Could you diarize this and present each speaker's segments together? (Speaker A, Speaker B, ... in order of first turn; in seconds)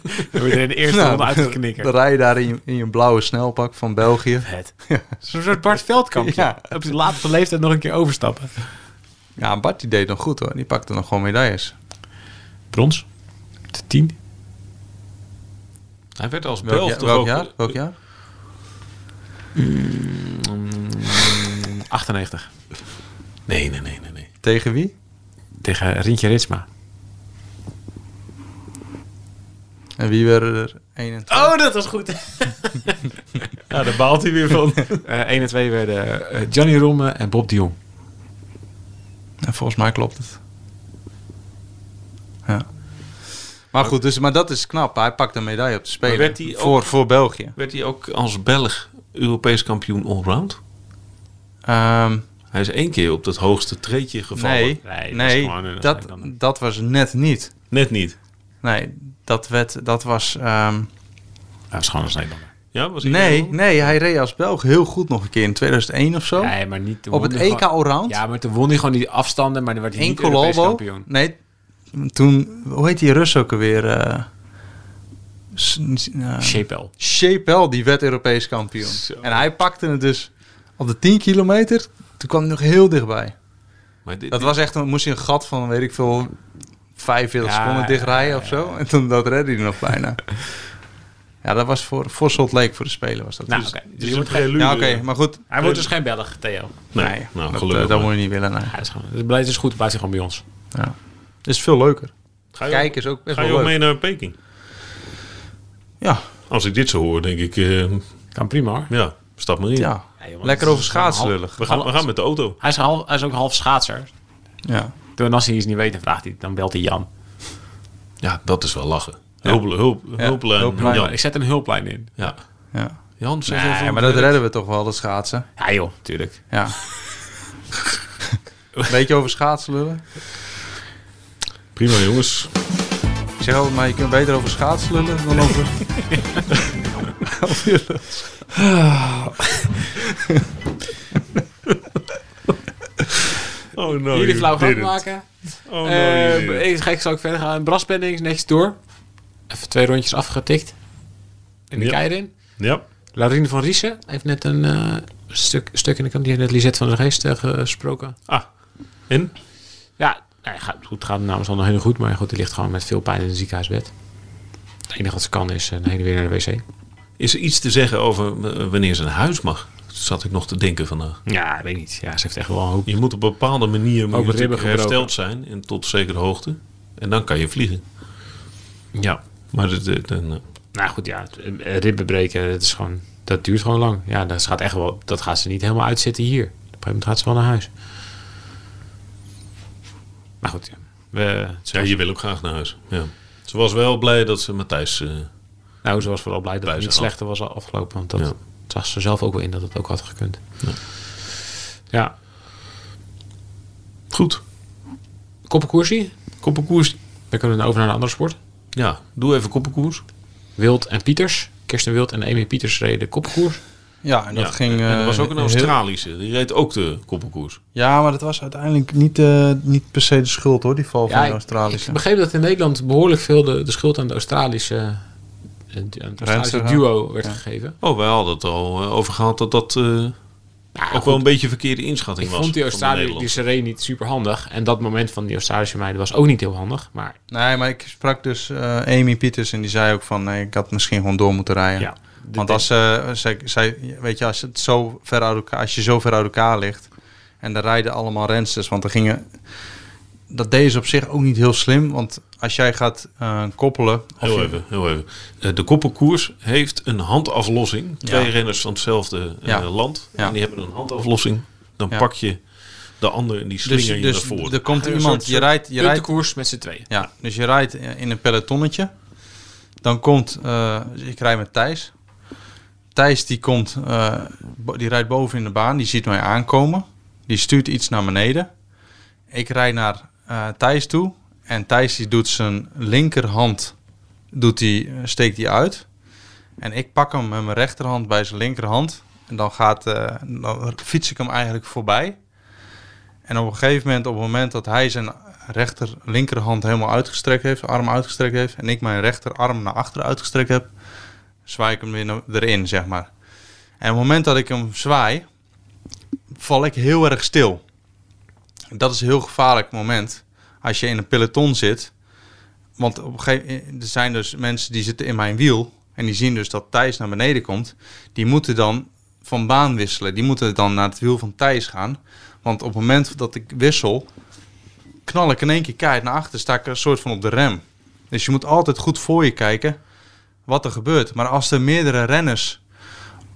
Speaker A: 0.2-1.9, 4.5-8.6, 12.7-13.1, 13.7-14.1, 19.6-22.5, 25.6-26.6, 31.3-33.1, 35.0-37.8, 54.8-56.3, 61.7-62.5, 66.4-71.1, 76.4-76.9, 87.4-88.8, 93.5-94.6, 95.5-96.8, 98.7-100.4, 108.3-108.9, 110.2-114.1, 115.2-117.1, 120.8-122.1, 125.6-126.4, 144.1-148.8, 149.5-150.8, 151.7-152.6, 153.1-158.2, 160.0-163.9, 164.9-166.6, 171.3-173.0, 174.1-175.1, 178.9-179.2, 180.7-187.7, 190.4-192.0, 195.8-200.4, 205.5-206.1, 207.3-208.4, 210.6-213.6, 221.1-225.0, 225.7-227.8, 230.8-231.3, 232.2-237.2, 241.8-242.7, 264.7-266.9
Speaker B: 0.9-5.2, 6.1-6.9, 9.4-11.7, 16.6-17.9, 24.4-24.9, 30.0-31.5, 39.4-40.4, 43.7-47.5, 51.7-52.2, 54.3-57.5, 58.6-60.9, 63.0-66.5, 67.1-68.2, 70.0-71.3, 71.9-74.3, 75.5-83.3, 84.3-86.3, 87.0-90.5, 91.4-93.8, 94.5-95.5, 97.0-98.7, 100.7-102.1, 102.7-103.8, 109.8-111.6, 114.7-114.9, 119.4-121.1, 123.5-125.5, 126.5-126.8, 128.9-130.0, 133.4-136.2, 137.2-138.5, 214.0-215.7, 217.8-222.0, 226.2-227.4, 237.3-246.9, 247.4-249.3, 250.3-254.6, 258.0-258.3, 259.4-260.4, 263.6-266.1, 266.9-268.9, 269.8-271.9, 272.9-278.5, 279.3-283.7, 284.3-285.9, 286.6-292.2, 293.3-300.7, 301.5-303.1, 303.8-305.2, 306.3-307.6, 308.7-311.9, 312.8-324.1, 325.1-329.8, 330.5-332.6
Speaker C: 16.2-17.7, 23.5-24.3, 33.7-35.0, 46.0-50.6, 52.5-54.8, 57.7-58.2, 62.7-63.9, 79.0-79.4, 84.0-84.5, 93.5-95.9, 96.9-98.1, 102.5-104.4, 106.5-108.2, 108.9-109.9, 111.6-112.6, 118.2-121.1, 123.2-124.4, 131.8-132.5, 143.7-145.0, 145.7-146.7, 151.8-152.8, 167.2-171.2, 172.9-177.8, 179.5-180.4, 191.7-195.3, 196.6-197.2, 204.1-204.4, 206.4-206.9, 208.7-210.0, 214.3-217.6, 227.8-230.2, 230.9-233.4, 254.2-262.4, 263.0-264.6